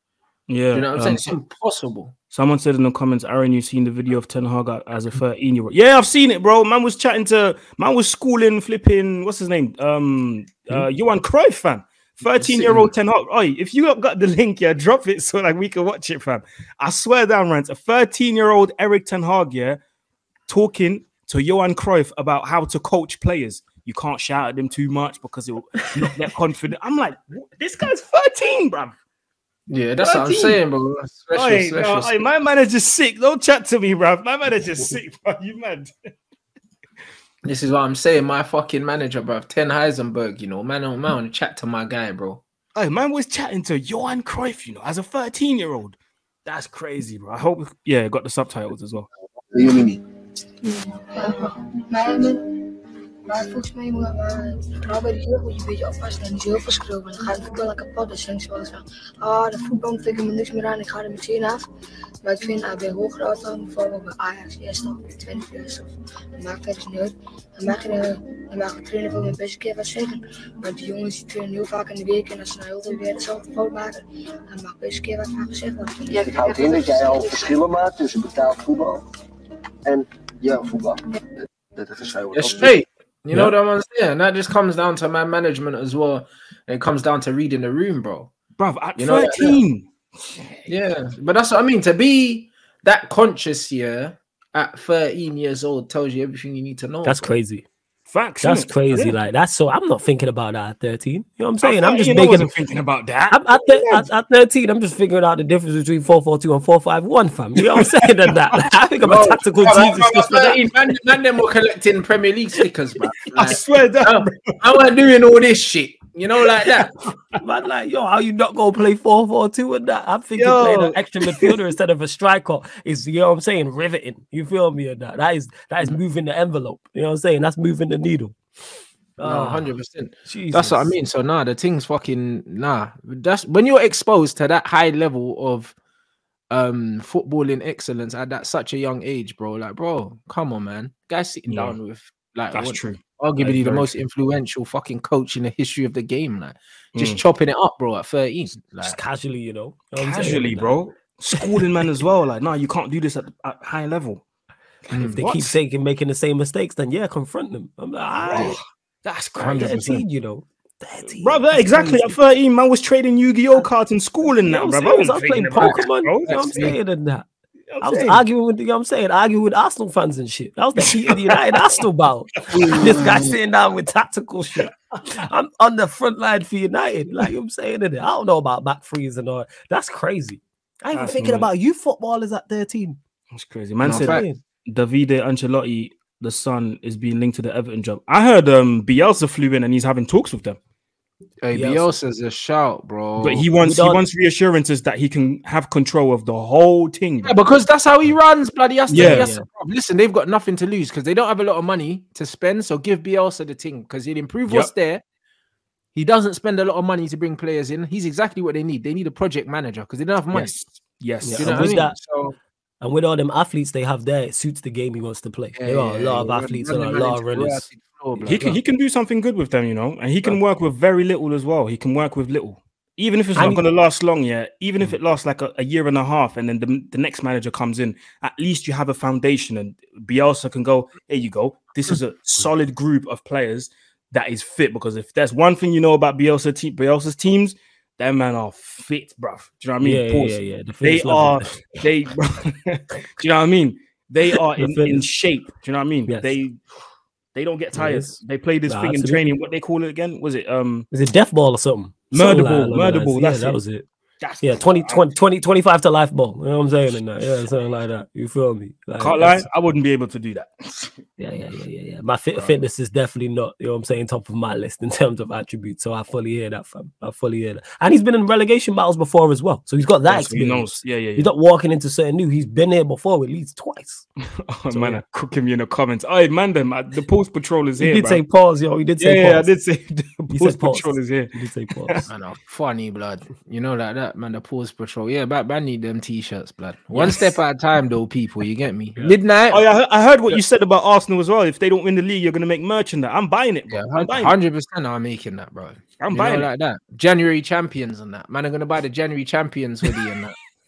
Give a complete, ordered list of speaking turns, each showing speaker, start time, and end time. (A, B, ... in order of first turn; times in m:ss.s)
0:00.5-0:01.3 A
0:00.7-0:02.2 B
0:02.3-0:19.8 A
0:12.5-0:12.9 B
0:20.5-0:29.0 A
0:29.7-0:32.2 B
0:30.0-0:30.6 A
0:31.3-0:35.9 A
0:37.4-0:42.4 B
0:42.8-0:49.1 A
0:49.5-0:50.0 C
0:50.6-0:52.4 D
0:53.3-1:01.6 D
1:02.2-1:17.6 D
1:16.1-1:19.0 C
1:19.8-1:22.8 C
1:22.3-1:28.3 B
1:28.6-1:30.6 A
1:29.0-1:29.6 B
1:30.7-1:37.3 B
1:37.0-1:37.7 E
1:38.1-1:39.2 A
1:38.4-1:42.5 E
1:41.6-1:44.1 A
1:43.3-1:50.6 E
1:49.0-1:56.9 B
1:53.3-1:54.6 A
1:56.4-1:56.9 A
1:57.4-2:08.4 E
2:00.4-2:01.6 A
2:09.2-2:09.7 E
2:09.2-2:15.8 B
2:10.3-2:10.9 E
2:16.5-2:29.0 B
2:21.5-2:21.8 A
2:22.5-2:24.0 A
2:27.0-2:27.2 A
2:28.8-2:30.8 E
2:30.0-2:34.2 A
2:34.9-2:35.3 B
2:35.0-2:38.6 E
2:35.0-2:35.5 A
2:38.2-2:39.8 A
2:39.4-2:40.0 B
2:39.4-2:42.2 E
2:41.1-2:46.8 A
2:44.4-2:47.3 E
2:45.6-2:46.8 B
2:47.7-2:48.2 A
2:47.8-3:03.0 E
2:52.6-2:53.4 B
2:52.6-2:53.0 A
3:00.9-3:01.5 A
3:03.3-3:10.6 A
3:03.8-3:04.3 B
3:03.9-3:04.4 E
3:11.4-3:13.5 B
3:11.5-3:11.9 E
3:13.2-3:17.4 A
3:13.6-3:14.0 E
3:17.2-3:25.0 B
3:18.9-3:19.3 A
3:18.9-3:19.5 E
3:26.0-3:30.6 B
3:30.3-3:31.8 A
3:31.2-3:32.0 E
3:31.3-3:32.4 B
3:32.8-3:38.6 E
3:35.6-3:38.5 B
3:38.2-4:06.6 A
3:43.4-3:43.6 E
3:59.8-4:01.6 E
4:04.6-4:05.0 E
4:06.1-4:06.3 E
4:07.3-4:10.9 A
4:07.8-4:09.3 E
4:10.9-4:13.9 E
4:12.1-4:13.6 A
4:14.2-4:15.1 A
4:14.4-4:19.5 E
4:19.0-4:21.0 A
4:21.2-4:34.1 E
4:22.3-4:22.6 A
4:30.1-4:31.3 A
4:34.5-4:38.2 A
4:34.7-4:35.0 E
4:37.8-4:39.5 E
4:39.0-4:41.3 A
4:40.3-4:42.0 E
4:42.1-4:49.6 B
4:46.9-4:47.4 A
4:49.5-4:54.4 A
4:53.7-5:00.4 B
4:56.0-4:56.5 A